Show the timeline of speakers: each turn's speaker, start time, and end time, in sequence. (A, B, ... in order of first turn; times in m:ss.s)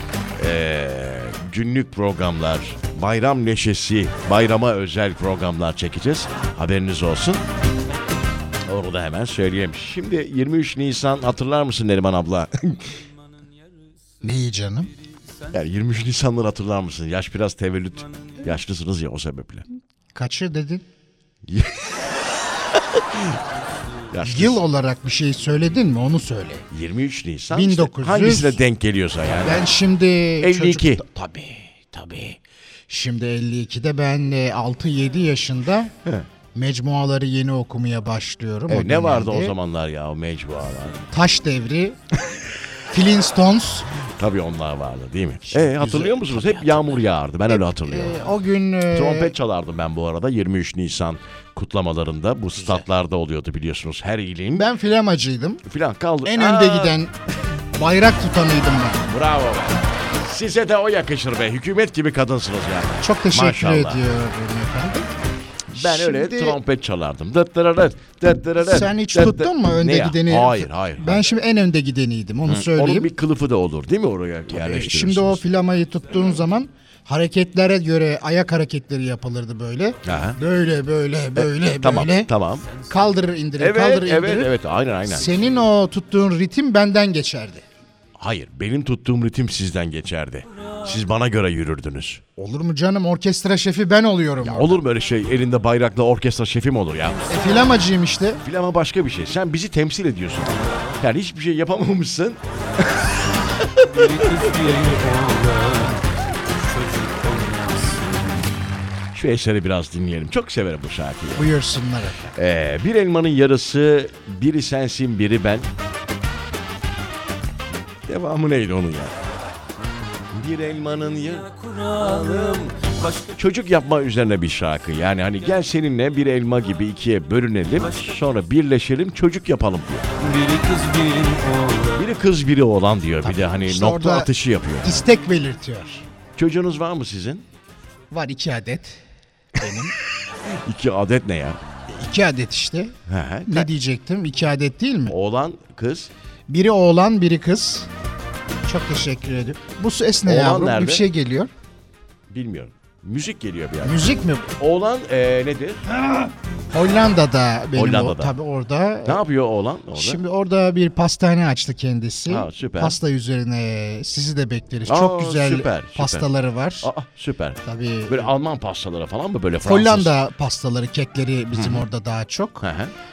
0:00.4-0:07.4 A
0:08.7-0:13.0 A
0:14.2-0:14.9 B
0:15.5-0:19.6 A
0:20.1-0:20.8 B
0:21.5-0:23.4 A
0:24.1-0:24.6 A
0:24.2-0:26.7 B
0:26.7-0:29.7 A
0:27.5-0:28.6 B
0:29.4-0:35.9 B
0:30.4-0:31.0 A
0:36.5-0:39.6 B
0:38.7-0:41.1 A
0:41.1-0:42.0 B
0:42.9-0:43.9 B
0:44.2-0:48.2 A
0:45.5-0:49.3 B
0:48.9-0:54.7 A
0:52.6-0:52.8 B
0:54.5-0:55.6 B
0:55.6-0:57.0 A
0:56.2-0:57.1 B
0:57.8-0:59.1 B
0:59.1-1:04.0 A
1:03.0-1:05.1 B
1:05.7-1:06.6 B
1:05.7-1:11.3 A
1:08.6-1:13.1 B
1:12.5-1:15.5 A
1:14.5-1:22.3 B
1:20.0-1:20.4 A
1:21.4-1:22.7 A
1:22.9-1:24.5 B
1:23.6-1:25.3 A
1:25.1-1:27.6 B
1:28.2-1:32.2 A
1:32.4-1:34.8 B
1:34.4-1:37.4 A
1:37.3-1:38.4 B
1:38.4-1:44.5 A
1:43.9-1:48.2 C
1:49.1-1:51.5 A
1:51.4-1:52.3 B
1:52.3-1:55.7 A
1:58.1-1:59.2 A
2:00.3-2:01.5 A
2:01.6-2:03.2 C
2:02.4-2:02.7 A
2:03.3-2:10.1 A
2:10.2-2:12.1 C
2:12.0-2:15.1 A
2:13.2-2:14.3 B
2:14.8-2:16.0 B
2:16.4-2:17.4 A
2:18.1-2:19.0 B
2:19.5-2:20.0 B
2:20.5-2:21.6 A
2:21.9-2:25.2 B
2:23.1-2:23.7 A
2:25.1-2:26.1 A
2:26.5-2:27.9 B
2:28.6-2:31.5 B
2:30.2-2:31.1 A
2:32.3-2:35.8 A
2:33.8-2:34.5 B
2:36.1-2:39.2 B
2:37.8-2:38.4 A
2:39.0-2:40.2 A
2:40.0-2:46.9 B
2:42.3-2:43.0 A
2:44.9-2:46.3 A
2:46.8-2:50.2 A
2:47.6-2:48.3 B
2:49.6-2:52.6 B
2:51.5-2:51.8 A
2:52.6-2:52.9 A